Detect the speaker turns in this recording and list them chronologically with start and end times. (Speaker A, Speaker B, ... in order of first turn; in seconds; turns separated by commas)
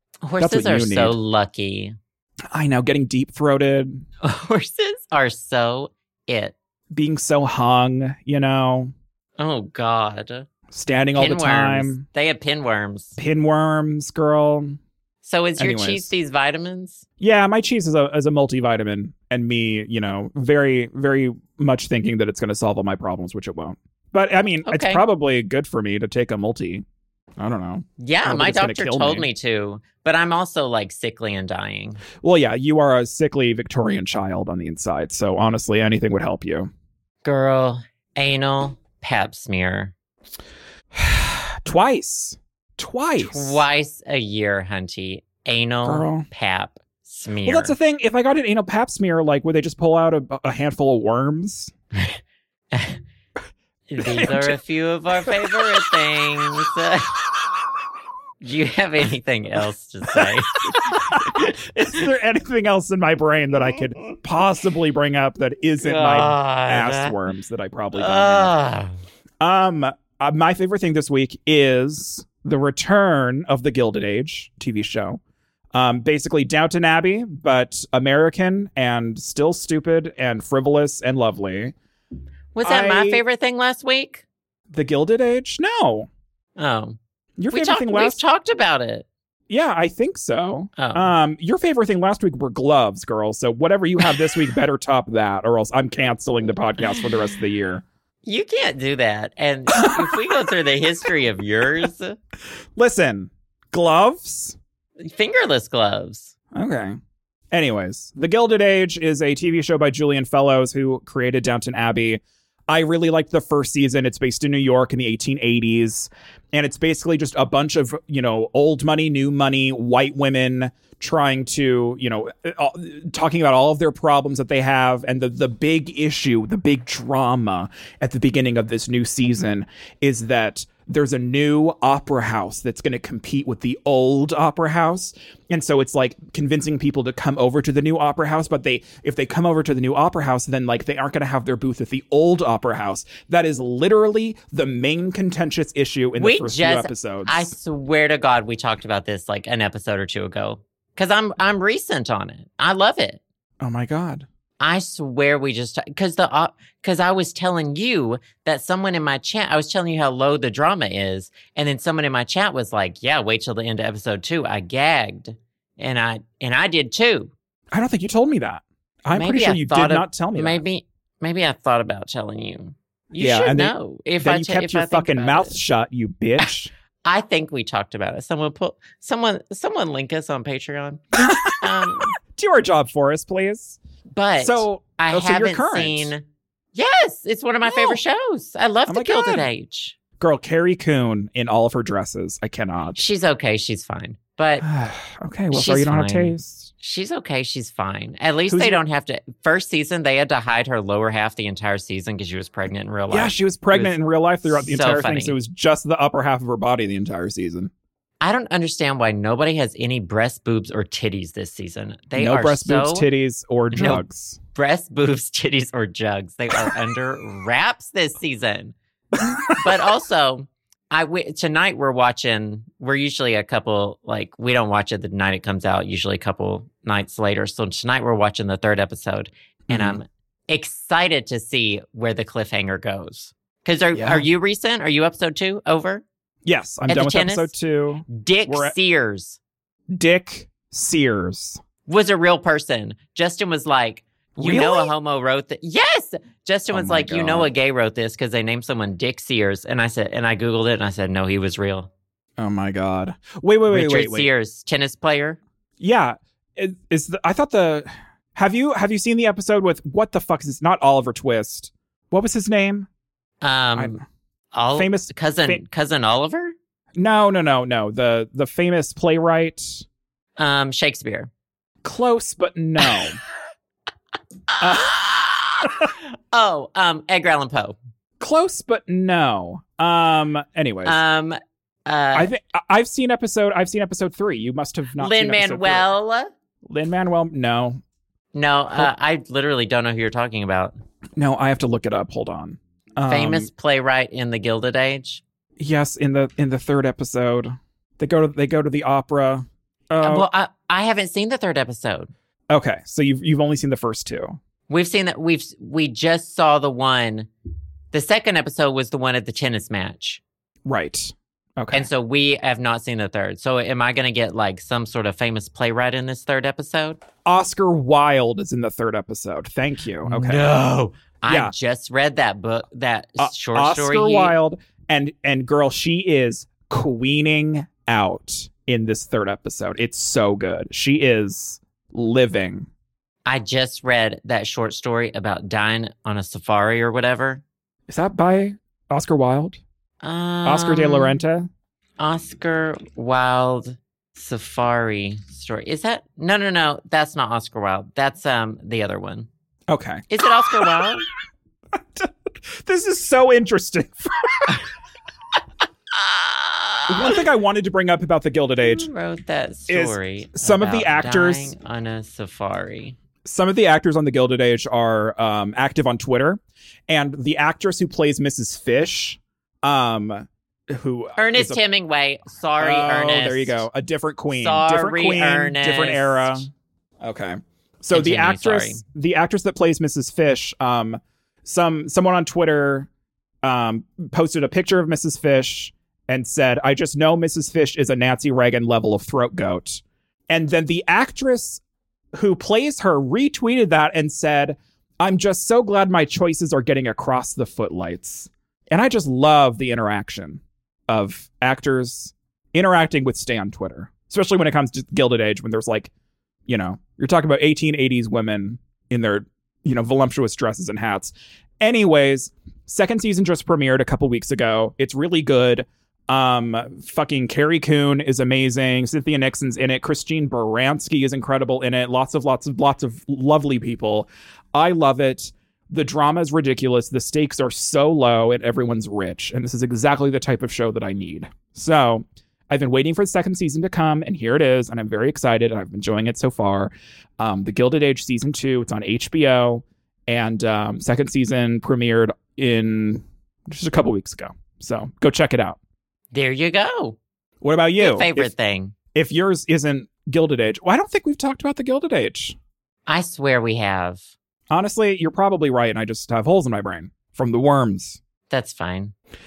Speaker A: 0.2-1.9, Speaker B: 0.4-1.2, Speaker B: 2.5-4.0, Speaker A: 4.2-6.5, Speaker B: 6.9-8.9, Speaker A: 9.4-10.5, Speaker B: 10.7-12.1, Speaker A: 11.2-13.2, Speaker B: 13.2-14.8, Speaker A: 15.2-17.0, Speaker B: 15.6-16.1, Speaker B: 17.2-26.9, Speaker A: 24.6-25.1, Speaker B: 27.4-29.3, Speaker A: 28.0-32.0, Speaker B: 32.2-36.7, Speaker A: 37.2-39.9, Speaker B: 40.9-43.6, Speaker A: 43.2-47.8, Speaker B: 45.8-46.3, Speaker B: 47.5-51.7, Speaker A: 52.7-53.0, Speaker A: 53.9-57.1, Speaker B: 54.0-54.6, Speaker B: 55.2-55.8, Speaker A: 58.4-61.2, Speaker B: 60.2-68.5, Speaker A: 65.8-67.2, Speaker A: 68.0-69.0, Speaker B: 69.4-75.2, Speaker B: 75.7-81.8, Speaker A: 82.5-84.2, Speaker B: 82.6-83.2, Speaker B: 84.7-86.1, Speaker A: 86.6-87.0, Speaker B: 87.4-88.2, Speaker A: 87.5-89.1, Speaker B: 89.5-97.8, Speaker A: 90.8-91.1, Speaker A: 96.8-97.1, Speaker A: 98.2-102.2, Speaker B: 102.8-104.6, Speaker A: 105.0-106.3, Speaker B: 106.5-107.0, Speaker B: 107.5-147.5, Speaker A: 146.2-153.2, Speaker B: 153.6-154.3, Speaker A: 154.6-167.3, Speaker B: 167.7-170.6, Speaker A: 169.1-175.6, Speaker B: 173.2-176.7, Speaker A: 177.1-182.1, Speaker B: 181.2-183.8, Speaker A: 184.1-190.0, Speaker B: 184.4-186.1, Speaker B: 187.7-188.0, Speaker B: 188.9-189.5, Speaker B: 190.2-193.0, Speaker A: 192.9-194.7, Speaker B: 194.6-196.7, Speaker A: 195.5-205.4, Speaker B: 198.5-198.8, Speaker B: 203.1-207.7, Speaker A: 208.2-213.1, Speaker B: 212.2-214.4, Speaker A: 213.7-214.0, Speaker A: 214.5-218.8, Speaker B: 219.2-219.7, Speaker A: 219.6-236.1, Speaker B: 229.7-230.0, Speaker B: 233.9-234.3, Speaker B: 236.4-238.8, Speaker A: 236.9-237.5, Speaker A: 238.1-239.4, Speaker B: 239.9-241.6, Speaker A: 241.9-251.9, Speaker B: 244.4-244.9, Speaker B: 246.7-247.5, Speaker B: 252.4-254.3, Speaker A: 253.7-255.4, Speaker B: 255.8-262.9, Speaker A: 263.4-264.0, Speaker B: 263.8-264.0, Speaker A: 264.5-266.6, Speaker B: 264.7-265.6, Speaker B: 267.0-269.9, Speaker A: 270.4-271.3, Speaker B: 271.8-273.2, Speaker A: 272.8-273.1, Speaker A: 274.5-277.8, Speaker B: 274.6-275.0, Speaker B: 278.2-281.0, Speaker A: 280.9-282.3, Speaker B: 282.1-285.9, Speaker A: 285.0-286.3, Speaker B: 286.6-287.8, Speaker A: 288.3-290.8, Speaker B: 291.2-293.5, Speaker A: 293.1-295.2, Speaker B: 295.6-300.3, Speaker A: 300.0-302.1, Speaker B: 302.5-304.4, Speaker A: 304.7-307.3, Speaker A: 307.9-310.2, Speaker B: 310.6-311.9, Speaker A: 311.7-317.0, Speaker B: 317.2-320.5, Speaker A: 320.1-324.4, Speaker B: 321.3-321.5, Speaker B: 323.2-332.7, Speaker A: 333.3-337.4, Speaker B: 337.9-339.6, Speaker A: 340.0-341.2, Speaker B: 340.4-341.5, Speaker A: 342.0-349.3, Speaker B: 349.7-350.9, Speaker A: 350.1-351.1, Speaker B: 351.7-354.6, Speaker A: 355.9-357.2, Speaker B: 356.9-358.9, Speaker A: 358.6-363.0, Speaker B: 359.7-361.5, Speaker B: 363.2-371.6, Speaker A: 371.2-373.6, Speaker B: 372.6-376.5, Speaker A: 374.3-376.4, Speaker B: 377.0-382.9, Speaker A: 377.9-378.8, Speaker B: 383.4-391.6, Speaker B: 392.2-405.9, Speaker B: 406.5-445.6, Speaker A: 446.1-447.0, Speaker B: 447.4-448.3, Speaker A: 447.8-448.7, Speaker B: 448.9-452.4, Speaker A: 452.9-454.0, Speaker B: 454.5-458.0, Speaker A: 458.3-458.9